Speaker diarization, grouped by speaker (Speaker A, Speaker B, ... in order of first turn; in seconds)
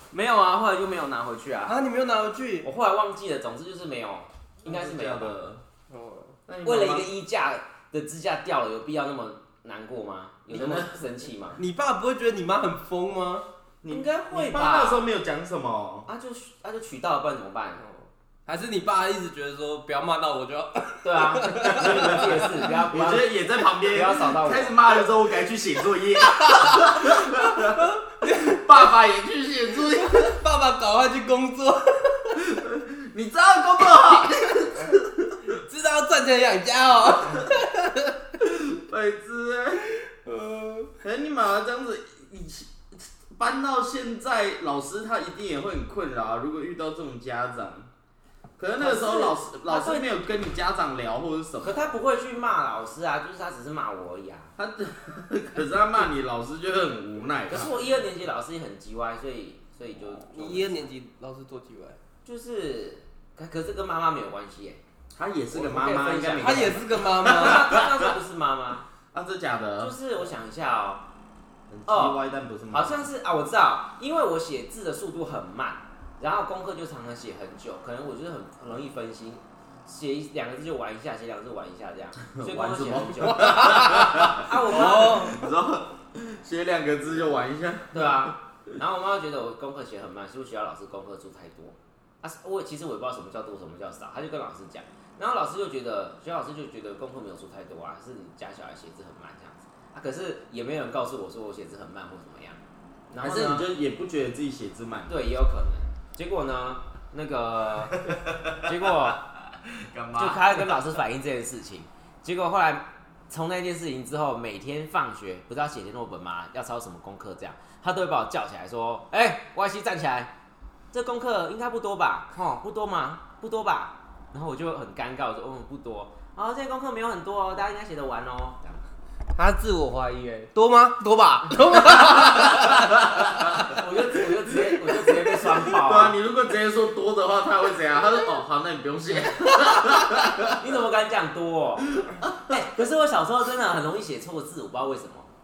Speaker A: 0.1-1.7, 2.6-5.3, 6.6-11.6, 13.9-15.0, 16.1-17.8, 21.0-23.3, 23.9-24.7, 48.8-50.1, 51.6-54.5, 57.5-60.9, 62.2-64.8, 65.5-68.8, 69.8-71.0, 71.9-72.2, 72.7-85.3, 87.9-102.6, 103.1-103.7, 105.1-108.0, 108.6-109.2, 110.2-120.3, 120.9-128.8, 133.7-136.2, 140.6-141.9, 142.5-145.3
Speaker B: 1.6-2.7, 5.9-6.3, 11.6-13.4, 17.8-22.7, 26.5-28.8, 29.9-32.4, 35.5-38.2, 40.1-40.9, 60.0-62.0, 66.4-67.7, 83.3-85.4, 129.3-132.9
Speaker C: 4.6-5.6, 6.5-7.1, 10.5-11.0, 13.8-16.1, 21.7-30.4, 32.3-35.5, 38.4-39.9, 41.0-47.9, 48.6-52.0, 54.6-57.7, 65.2-68.1, 69.1-69.9, 71.7-73.1, 82.3-88.3, 103.2-105.1, 108.0-109.2, 109.8-110.8, 131.9-133.6, 135.3-140.6, 142.0-142.6